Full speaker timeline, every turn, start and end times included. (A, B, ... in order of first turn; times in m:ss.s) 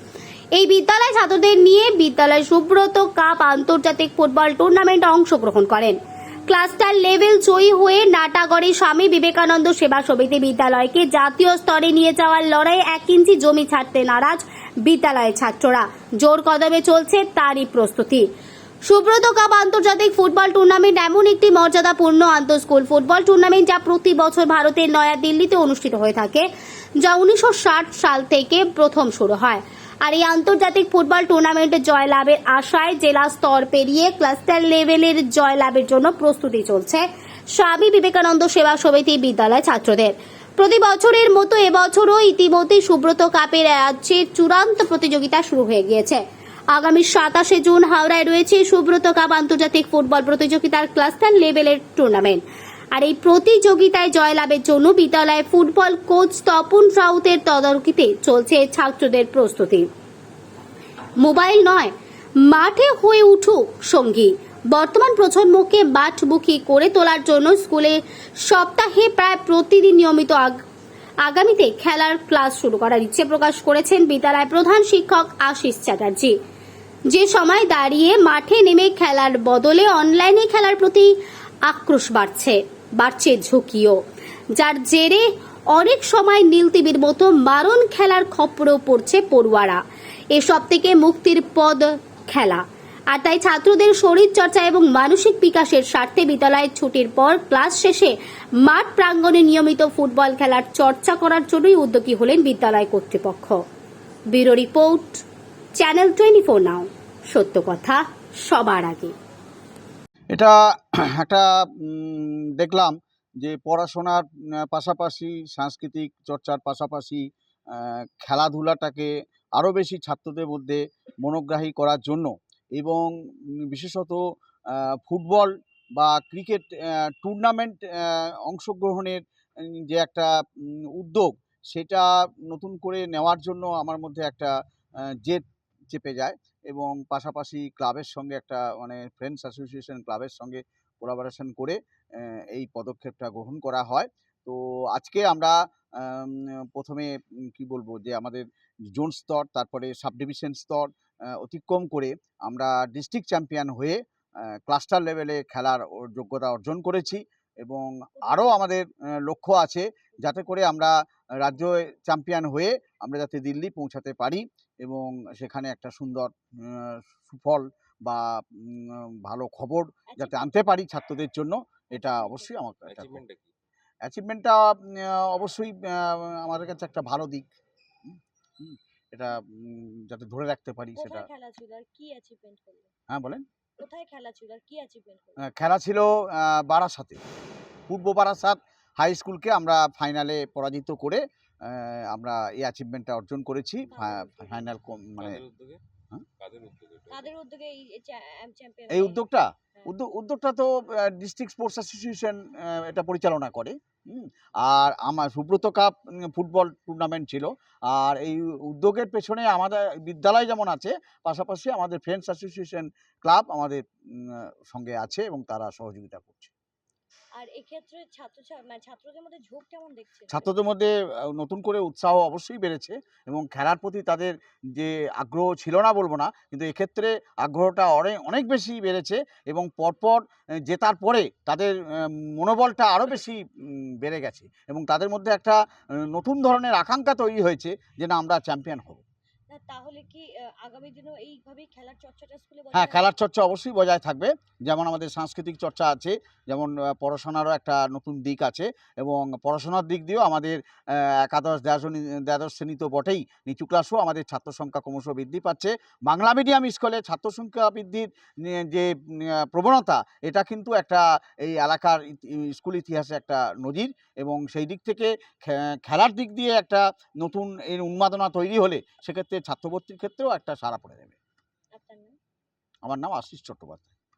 0:00.5-0:18.3 A
0:18.8-0:26.5 A
0:27.0-0:52.4 A
0:52.9-0:59.9 A
1:01.2-1:01.9 A
1:02.4-1:10.6 A
1:11.2-1:16.4 A
1:17.1-1:21.1 A
1:21.6-1:24.0 A
1:24.6-1:29.8 A
1:30.3-1:43.6 A
1:44.3-1:45.2 A
1:45.8-1:49.1 A
1:50.3-2:03.1 B
2:03.6-2:14.5 B
2:15.2-2:34.0 B
2:34.7-2:53.2 B
2:50.1-2:50.5 C
2:51.9-2:52.5 C
2:52.9-2:53.5 D
2:54.0-2:57.5 B
2:58.0-3:01.2 B
3:01.0-3:02.9 C
3:03.1-3:03.4 B
3:03.8-3:05.4 C
3:05.4-3:07.2 B
3:07.9-3:15.4 B
3:13.9-3:14.7 C
3:15.2-3:15.8 D
3:16.4-3:17.3 D
3:17.1-3:19.2 C
3:18.9-3:36.5 B
3:37.4-3:40.5 C
3:40.3-3:59.0 B
3:59.5-4:03.1 C
4:02.7-4:31.2 B
4:31.7-4:32.2 C
4:32.8-4:33.9 B